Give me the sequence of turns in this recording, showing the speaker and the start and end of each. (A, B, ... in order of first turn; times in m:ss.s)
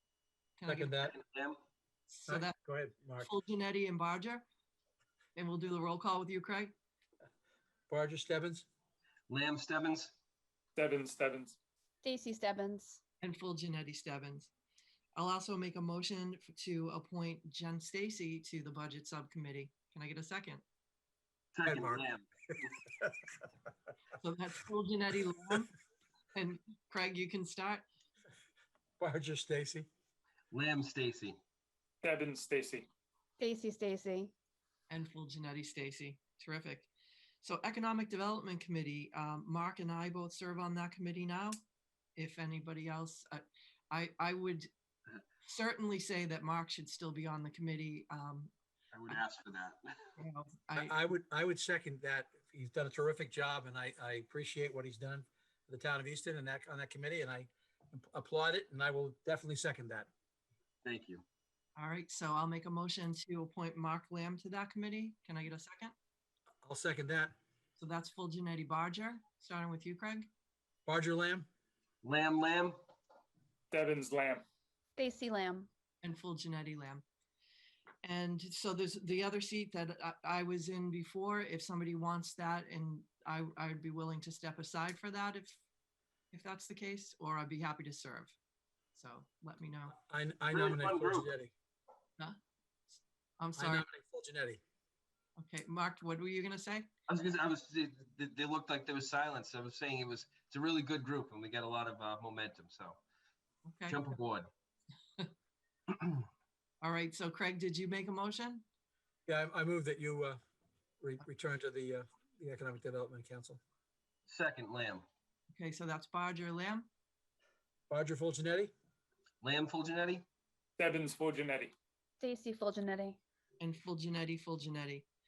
0:00.6-0:01.0 A
0:00.7-0:01.1 B
0:01.1-0:01.6 C
0:02.1-0:02.6 A
0:02.3-0:03.3 B
0:03.2-0:04.5 A
0:05.4-0:06.7 A
0:07.9-0:08.7 B
0:09.3-0:10.1 C
0:10.8-0:11.6 D
0:12.0-0:13.0 E
0:13.2-0:14.5 A
0:15.2-0:20.6 A
0:21.5-0:22.8 C
0:21.6-0:22.0 B
0:24.2-0:25.7 A
0:26.3-0:27.8 A
0:29.0-0:29.9 B
0:30.5-0:31.4 C
0:32.0-0:32.9 D
0:33.4-0:34.3 E
0:34.9-0:36.9 A
0:37.4-0:41.6 A
0:42.2-0:44.7 A
0:45.4-0:48.5 A
0:48.9-0:50.0 C
0:50.2-0:51.0 A
0:50.8-1:00.1 B
1:00.8-1:01.2 C
1:01.8-1:05.9 A
1:06.6-1:07.4 B
1:07.8-1:10.3 A
1:10.9-1:11.5 B
1:12.0-1:12.8 C
1:13.7-1:14.4 D
1:15.0-1:15.7 E
1:16.0-1:17.0 A
1:18.0-1:25.6 A
1:26.3-1:28.4 A
1:29.0-1:30.0 A
1:29.9-1:31.5 B
1:30.5-1:31.3 C
1:33.4-1:33.8 A
1:33.6-1:34.6 B
1:35.4-1:36.9 A
1:37.1-1:43.0 C
1:43.7-1:44.2 A
1:43.9-1:44.5 C
1:46.8-1:48.6 A
1:49.3-1:50.4 B
1:51.0-1:53.6 B
1:54.3-1:55.0 C
1:55.5-1:56.9 A
1:57.9-1:58.7 B
1:59.4-2:00.2 C
2:00.8-2:01.7 D
2:02.2-2:03.2 E
2:03.6-2:05.1 A